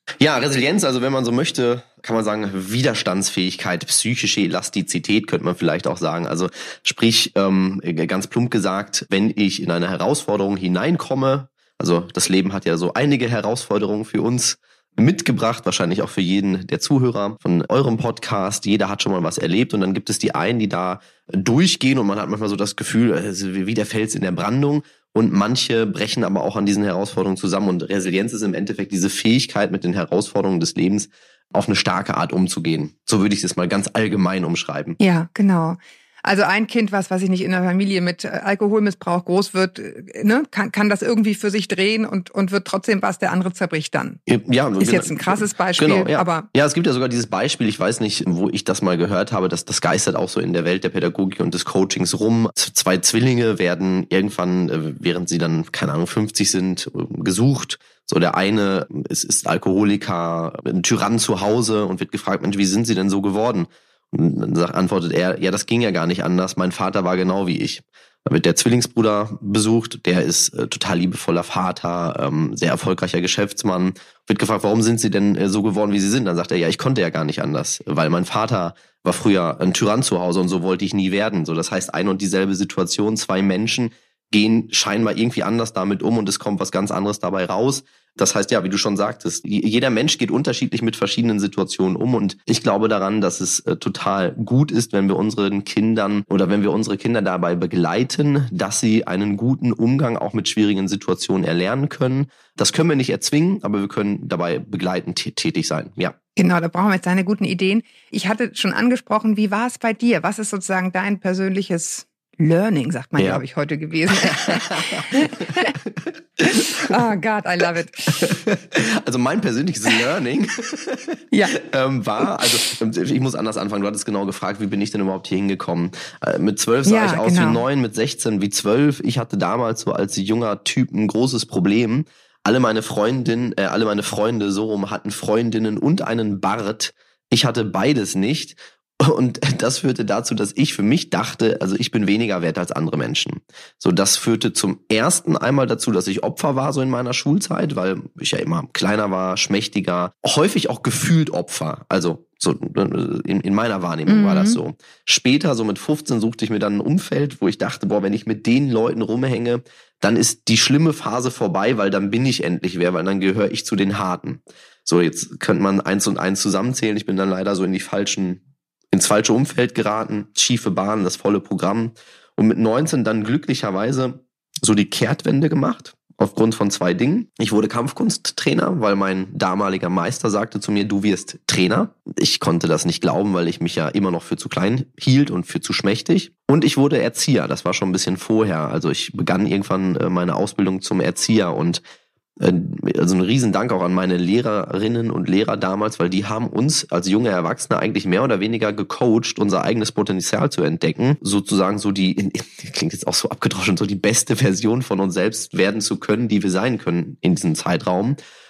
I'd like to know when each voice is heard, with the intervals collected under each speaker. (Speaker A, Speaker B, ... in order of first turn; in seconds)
Speaker A: 0.2-35.0, 44.3-106.1, 114.1-116.9, 118.1-168.4, 168.9-191.8, 192.4-208.2
Speaker B: 35.0-44.2, 44.8-46.5, 106.3-115.7, 116.5-118.4, 121.3-121.6, 126.8-127.6, 154.1-154.6